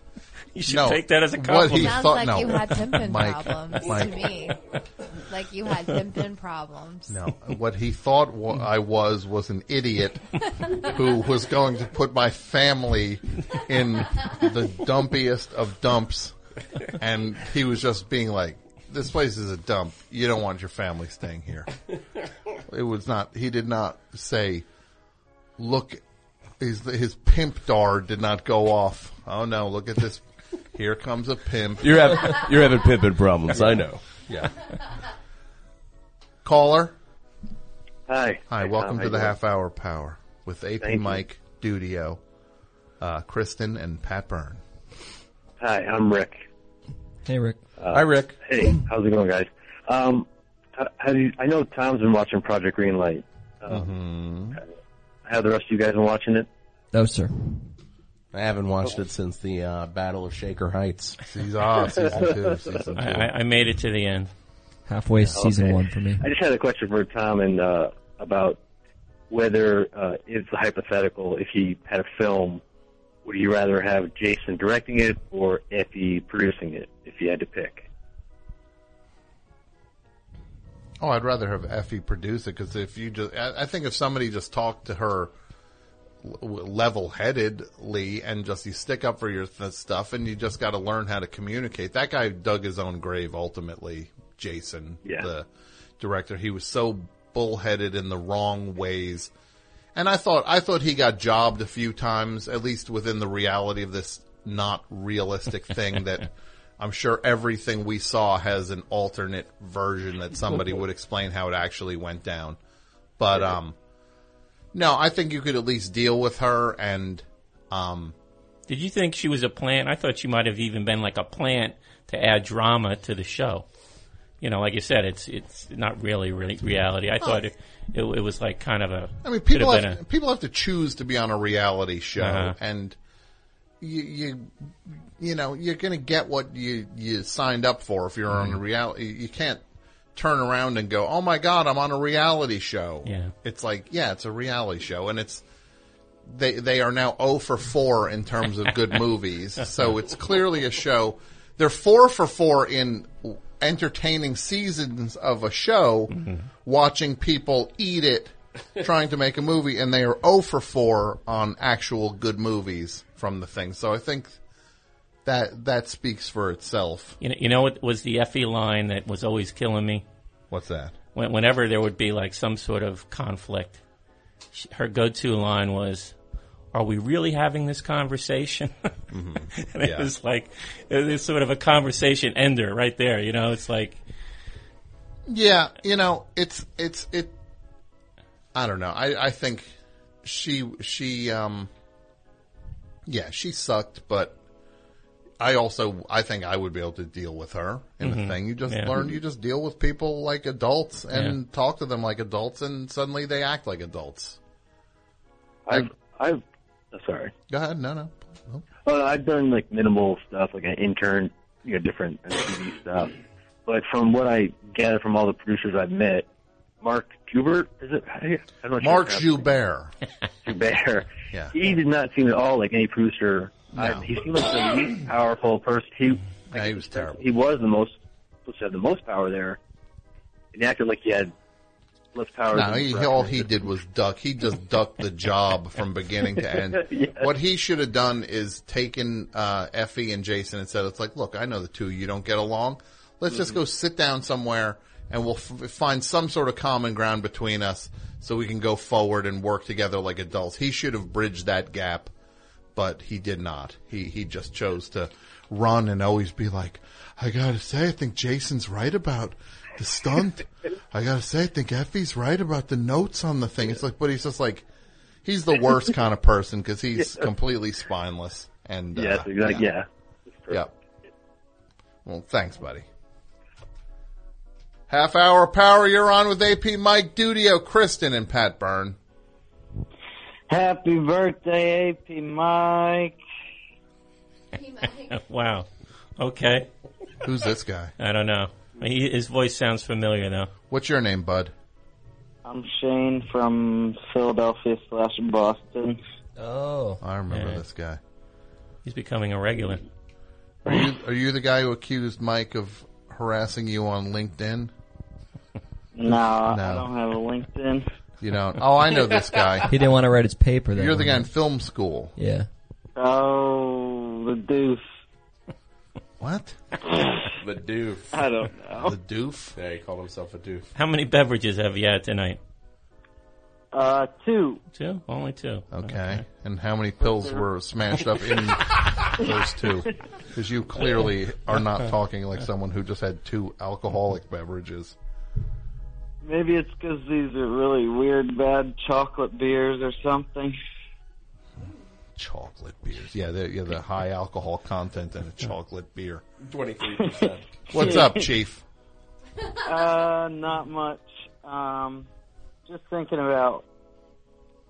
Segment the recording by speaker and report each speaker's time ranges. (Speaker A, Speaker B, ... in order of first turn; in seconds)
Speaker A: 0.5-2.2, 63.0-64.3, 118.7-123.7, 124.4-130.0, 132.2-132.6, 138.3-138.6, 143.1-143.3, 156.2-156.5, 167.2-170.0, 171.1-173.8, 174.5-176.1, 176.7-178.9, 179.6-184.0, 198.0-199.1, 201.1-201.4, 284.6-286.7, 288.0-290.5, 297.3-297.6, 298.9-299.9, 320.8-322.4, 324.7-326.2
Speaker B: 0.7-4.4, 7.1-21.8, 22.7-24.7, 25.6-26.0, 26.6-32.5, 33.5-34.7, 36.4-37.0, 38.5-42.2, 43.0-44.6, 53.7-54.6, 61.2-63.3, 81.0-85.3, 86.2-95.5, 96.0-99.3, 100.0-112.6, 113.2-113.8, 114.7-118.1, 129.2-133.0, 133.8-134.5, 135.2-139.6, 140.2-145.4, 146.3-164.4, 165.2-167.2, 170.5-170.9, 179.1-180.1, 185.3-187.3, 188.5-189.7, 190.2-191.7, 193.1-194.4, 195.4-204.4, 207.5-208.7, 218.8-219.9, 223.8-224.1, 226.5-227.2, 232.5-252.1, 252.8-264.6, 265.2-269.7, 272.1-272.9, 274.9-279.0, 287.2-287.9, 290.7-291.5, 297.0-298.0, 300.6-304.7, 306.1-306.9, 308.2-309.8, 310.8-312.1, 316.2-316.6, 318.8-319.6, 325.7-334.9, 342.2-346.2, 347.7-348.6
Speaker C: 1.7-7.2
Speaker D: 31.8-34.2, 47.9-48.4, 58.3-61.2, 317.4-318.2, 319.6-320.7, 346.4-348.0
Speaker E: 38.1-39.4, 40.8-41.2, 45.6-46.5, 47.8-53.9, 55.3-56.5, 62.1-62.4, 65.4-68.6, 69.3-72.6, 73.2-77.9, 205.7-206.4, 206.9-207.3, 208.8-213.1, 213.7-216.3, 216.8-219.6, 220.4-229.6, 230.5-231.3, 232.1-233.5, 236.8-237.2, 268.9-269.9
Speaker F: 47.2-47.6, 56.9-57.7, 64.9-66.2, 296.4-297.0, 309.7-311.3, 312.2-312.5
Speaker G: 280.5-283.2, 292.4-296.0, 305.9-307.9, 313.0-314.8, 316.9-317.3, 318.1-319.0, 323.7-324.6, 327.0-327.4, 336.2-340.6, 347.8-348.2, 349.6-352.1, 352.7-353.6